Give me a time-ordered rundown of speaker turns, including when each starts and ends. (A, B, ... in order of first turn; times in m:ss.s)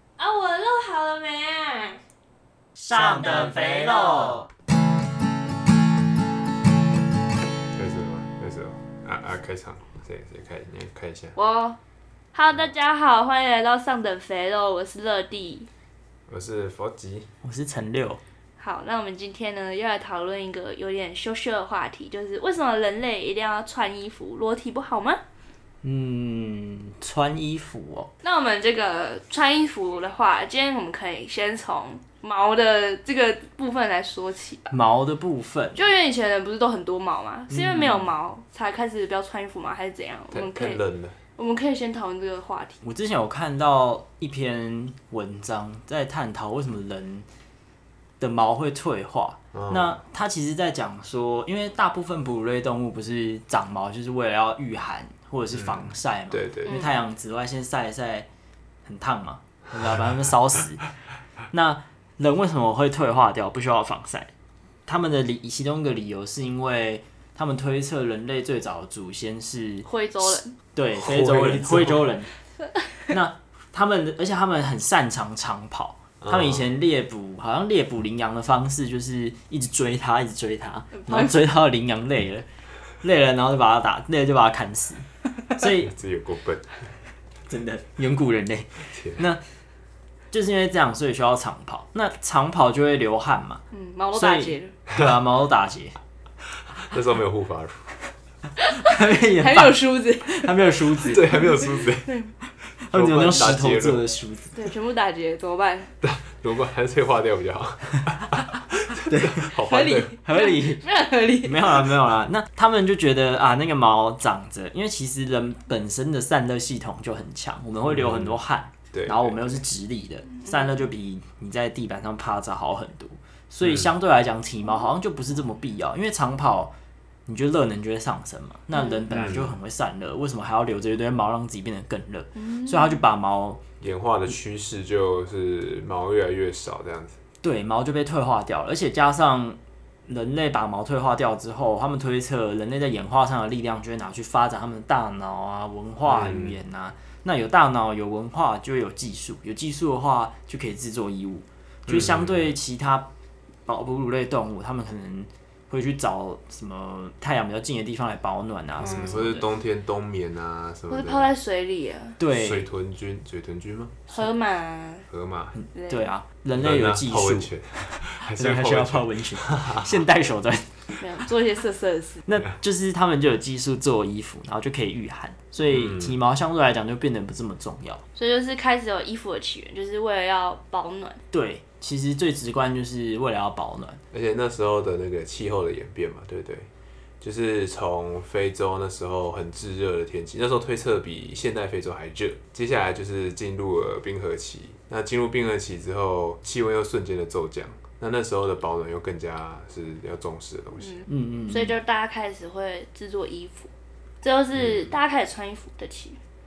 0:00.2-0:02.0 A
0:02.8-0:04.5 B
0:03.1-0:04.4 A
0:07.8-0:11.4 C
0:11.4-0:11.8 A
0:12.3-0:15.7 A
0:16.3-0:17.3 C
0:17.4-0:18.2 B
0:18.6-0:25.2 A
0:25.8-0:28.1 B
0:28.2-0:34.7 A
0:34.7-0:35.8 B
0:35.8-0:40.8 A
0:37.5-0:38.2 B
0:40.3-0:41.2 C
0:41.4-0:42.8 A
0:42.8-0:47.3 B
0:48.2-0:58.3 B
0:49.5-0:50.0 C
0:55.5-0:56.9 C
0:58.8-1:00.8 B
1:01.5-1:04.3 B
1:04.9-1:12.3 B
1:09.8-1:10.6 A
1:10.9-1:12.1 C
1:13.1-1:22.5 B
1:16.2-1:16.6 C
1:21.0-1:21.4 A
1:23.0-1:25.9 B
1:25.8-1:26.8 C
1:27.5-1:29.4 B
1:28.9-1:29.2 C
1:30.3-1:36.0 B
1:33.7-1:34.8 A
1:36.8-1:37.9 C
1:38.6-1:42.3 A
1:38.7-1:41.7 B
1:41.1-1:42.1 C
1:42.8-1:44.6 B
1:42.9-1:44.0 C
1:44.6-1:45.9 A
1:46.0-1:50.1 C
1:49.0-2:06.7 B
1:49.6-1:52.0 A
1:57.8-1:58.4 C
1:58.9-1:59.6 C
2:07.3-2:13.6 B
2:08.7-2:09.1 A
2:09.1-2:09.5 C
2:12.4-2:13.0 A
2:13.8-2:17.2 C
2:17.4-2:33.1 B
2:26.0-2:26.6 C
2:31.9-2:32.5 C
2:33.7-2:39.4 B
2:38.8-2:41.3 C
2:40.9-2:42.2 A
2:42.2-2:42.7 B
2:42.3-2:44.1 C
2:44.1-2:45.1 A
2:45.1-2:45.6 C
2:45.6-2:51.3 B
2:45.8-2:46.1 A
2:46.5-2:50.0 C
2:51.0-2:52.2 A
2:52.3-2:58.0 B
2:55.7-2:56.1 C
2:58.2-3:01.2 A
3:01.3-3:04.0 B
3:04.1-3:06.7 C
3:07.2-3:21.0 C
3:20.8-3:23.7 A
3:21.1-3:21.8 B
3:24.2-3:26.2 A
3:24.6-3:24.8 C